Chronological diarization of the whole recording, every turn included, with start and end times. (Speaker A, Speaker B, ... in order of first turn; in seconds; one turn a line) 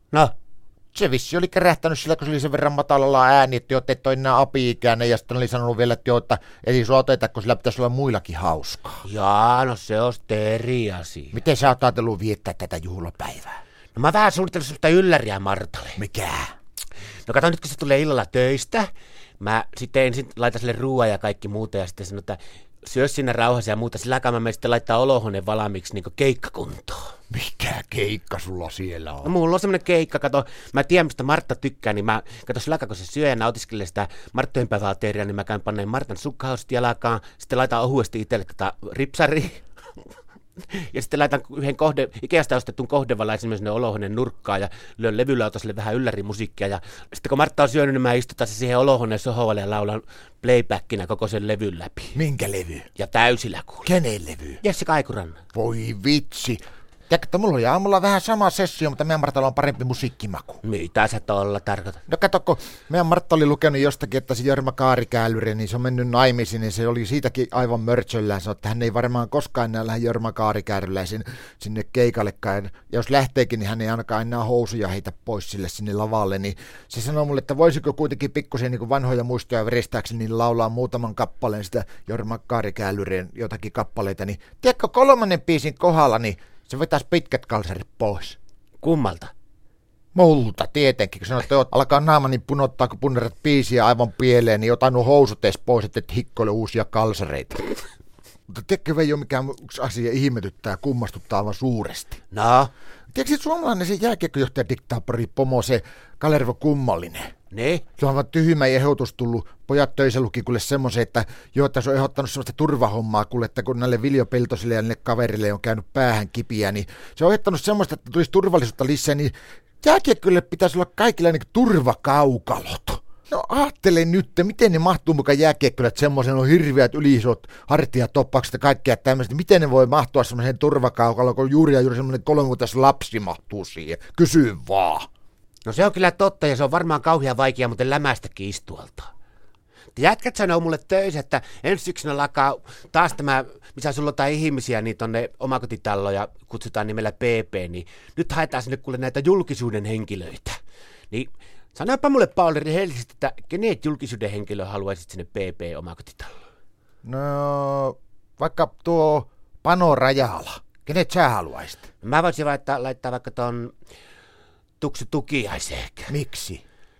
Speaker A: 0.9-9.0
Speaker B: 9.0-11.4
Speaker A: 11.3-13.6
Speaker B: 13.9-16.0
Speaker A: 16.0-16.5
Speaker B: 17.3-27.1
Speaker A: 27.3-29.3
Speaker B: 29.2-39.6
Speaker B: 40.7-52.2
Speaker A: 52.1-52.9
Speaker B: 53.0-53.9
Speaker A: 53.9-54.6
Speaker B: 54.6-55.4
Speaker A: 55.5-60.6
Speaker B: 60.6-62.0
Speaker A: 62.1-88.4
Speaker B: 88.8-89.3
Speaker A: 90.1-97.7
Speaker A: 98.5-102.2
Speaker B: 102.3-102.7
Speaker A: 103.1-107.3
Speaker B: 107.5-107.8
Speaker A: 108.0-135.1
Speaker B: 135.7-139.1
Speaker B: 140.0-150.6
Speaker B: 151.1-156.3
Speaker A: 157.0-161.9
Speaker B: 162.0-163.7
Speaker B: 164.8-166.2
Speaker A: 166.1-166.6